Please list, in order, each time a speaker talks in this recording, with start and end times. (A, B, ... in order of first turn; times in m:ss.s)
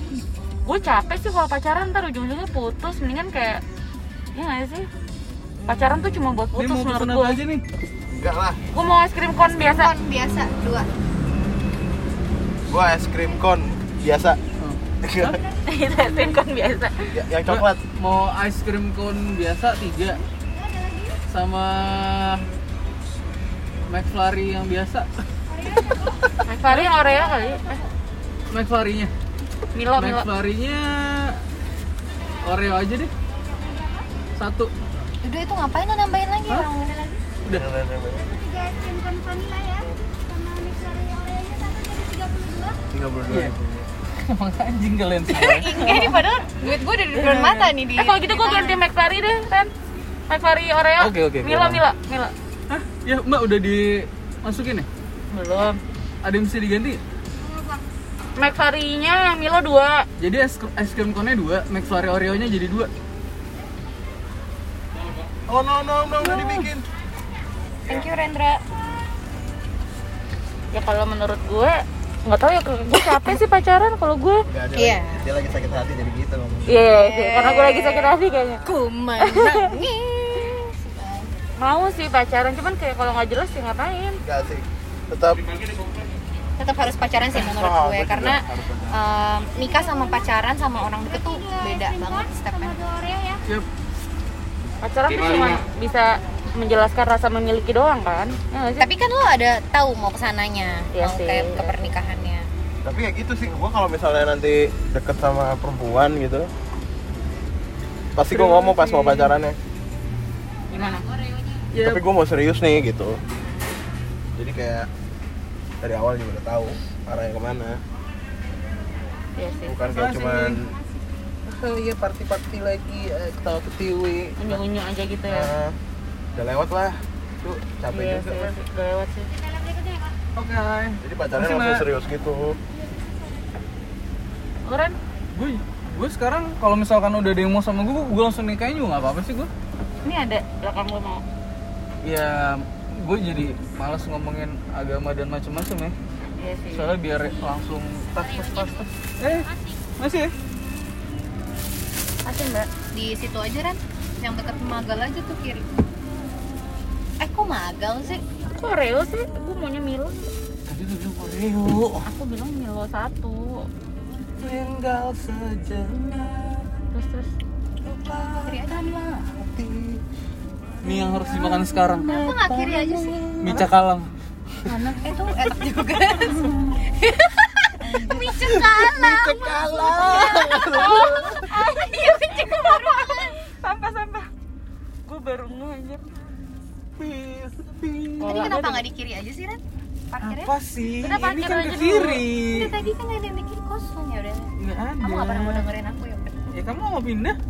0:00.6-0:03.6 A
0:04.3-0:04.9 A
0:05.6-0:07.4 A
0:06.5-0:07.6 B
0:08.1-0:08.6 C
0:08.7-0:09.9 A
0:09.4-0:10.9 D
0:12.7-0:14.4 C
0:14.6-0:15.3 B
0:15.0-0:15.4 C
0:15.6-0:17.1 A
0:17.1-0:17.8 C
0:17.4-0:20.2 B
0:21.3-0:22.4 B
0:23.9-0:25.1 B
0:26.4-0:27.8 A
0:28.5-0:29.1 B
0:29.7-0:30.3 A
0:30.0-0:31.4 B
0:32.4-0:33.1 B
0:34.4-0:34.7 B
0:35.2-0:37.2 D
0:37.4-0:38.4 C
0:38.6-0:39.9 D
0:42.3-0:42.6 D
0:42.9-0:43.9 C
0:44.2-0:46.2 B
0:45.3-0:48.8 D
0:47.1-0:49.7 A
0:50.3-0:52.3 A
0:51.0-0:51.8 B
0:52.7-0:54.9 B
0:55.3-0:55.8 A
0:56.2-0:57.0 B
0:57.4-0:57.8 D
0:58.4-1:00.1 A
1:00.2-1:02.9 B
1:05.5-1:06.9 C
1:06.2-1:06.6 D
1:07.9-1:08.6 D
1:10.7-1:14.4 A
1:13.0-1:13.4 D
1:14.5-1:16.9 C
1:14.8-1:15.3 D
1:16.7-1:19.7 A
1:16.8-1:18.1 D
1:18.6-1:21.3 D
1:21.6-1:24.2 A
1:24.2-1:25.5 C
1:26.6-1:33.3 D
1:27.3-1:29.0 C
1:34.8-1:38.9 A
1:38.8-1:42.5 D
1:40.9-1:41.9 A
1:42.8-1:46.5 C
1:48.1-1:49.6 C
1:48.3-1:49.4 B
1:50.7-1:51.1 A
1:51.7-1:52.0 B
1:51.8-1:53.2 C
1:54.4-1:54.9 C
1:55.8-1:57.8 C
1:59.4-1:59.8 A
1:59.7-2:00.8 C
1:59.9-2:00.6 B
2:01.5-2:04.6 C
2:04.4-2:05.5 A
2:05.3-2:05.8 C
2:06.3-2:08.5 C
2:07.9-2:09.3 A
2:10.4-2:11.9 B
2:11.0-2:12.6 C
2:14.6-2:15.0 A
2:15.3-2:19.5 B
2:20.0-2:21.2 A
2:22.0-2:25.9 B
2:26.4-2:26.9 A
2:26.7-2:30.3 B
2:32.2-2:32.7 A
2:32.9-2:35.7 D
2:37.2-2:38.2 D
2:38.5-2:40.2 A
2:40.8-2:42.0 C
2:42.0-2:43.7 A
2:44.4-2:46.6 C
2:46.9-2:47.4 A
2:47.8-2:50.0 C
2:48.4-2:49.2 D
2:50.8-2:52.3 B
2:51.5-2:53.2 D
2:52.1-2:53.7 C
2:53.4-2:54.1 B
2:54.6-2:55.0 A
2:55.0-3:03.4 D
2:57.9-3:01.5 C
3:00.1-3:04.3 A
3:05.0-3:06.0 A
3:07.0-3:08.6 B
3:08.2-3:08.9 A
3:08.2-3:10.5 D
3:10.2-3:12.7 B
3:11.0-3:12.2 A
3:12.4-3:16.3 D
3:14.6-3:15.6 B
3:16.5-3:17.4 B